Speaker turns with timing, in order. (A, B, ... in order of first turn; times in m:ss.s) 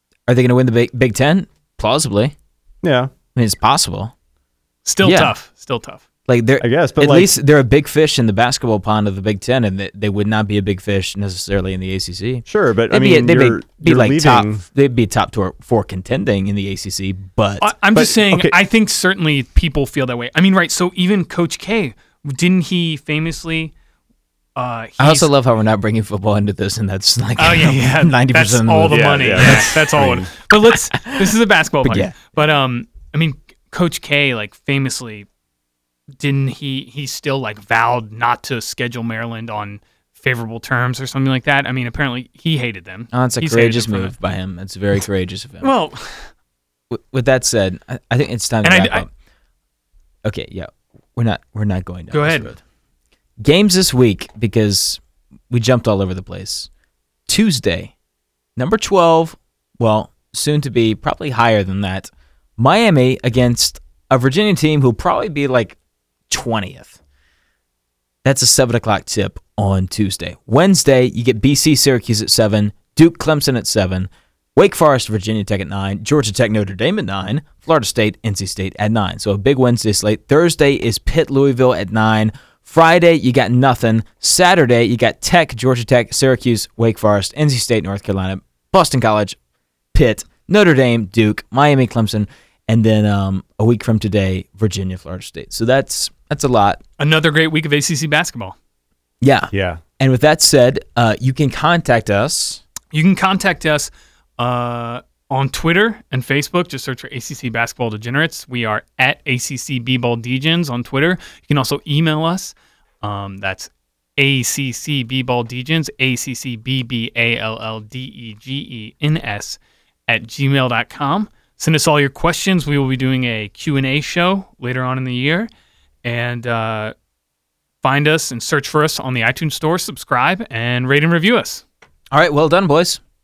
0:00.3-0:02.3 A
0:02.8-0:03.1 B
0:03.3-0:04.1 A
0:04.8-0:06.0 C
0:05.0-0:05.3 A
0:06.3-0:17.7 A
0:06.6-0:07.3 B
0:12.5-0:14.6 B
0:17.6-0:23.7 C
0:17.9-0:18.6 B
0:24.6-0:25.3 C
0:25.0-0:30.1 A
0:27.4-0:35.3 C
0:28.9-0:30.3 B
0:30.9-0:32.2 A
0:36.2-0:44.2 C
0:43.1-0:45.7 A
0:45.6-0:46.3 C
0:46.9-0:49.1 A
0:48.6-0:49.0 C
0:50.2-0:52.6 A
0:52.1-0:52.5 C
0:53.4-0:56.7 A
0:57.3-0:57.9 A
0:58.6-1:05.8 A
1:06.3-1:07.0 A
1:08.2-1:29.4 A
1:29.9-1:36.8 A
1:37.0-1:38.6 C
1:39.2-1:42.6 A
1:39.5-1:39.8 B
1:42.9-2:05.5 C
2:06.0-2:06.9 C
2:07.8-2:11.6 C
2:12.1-2:13.0 A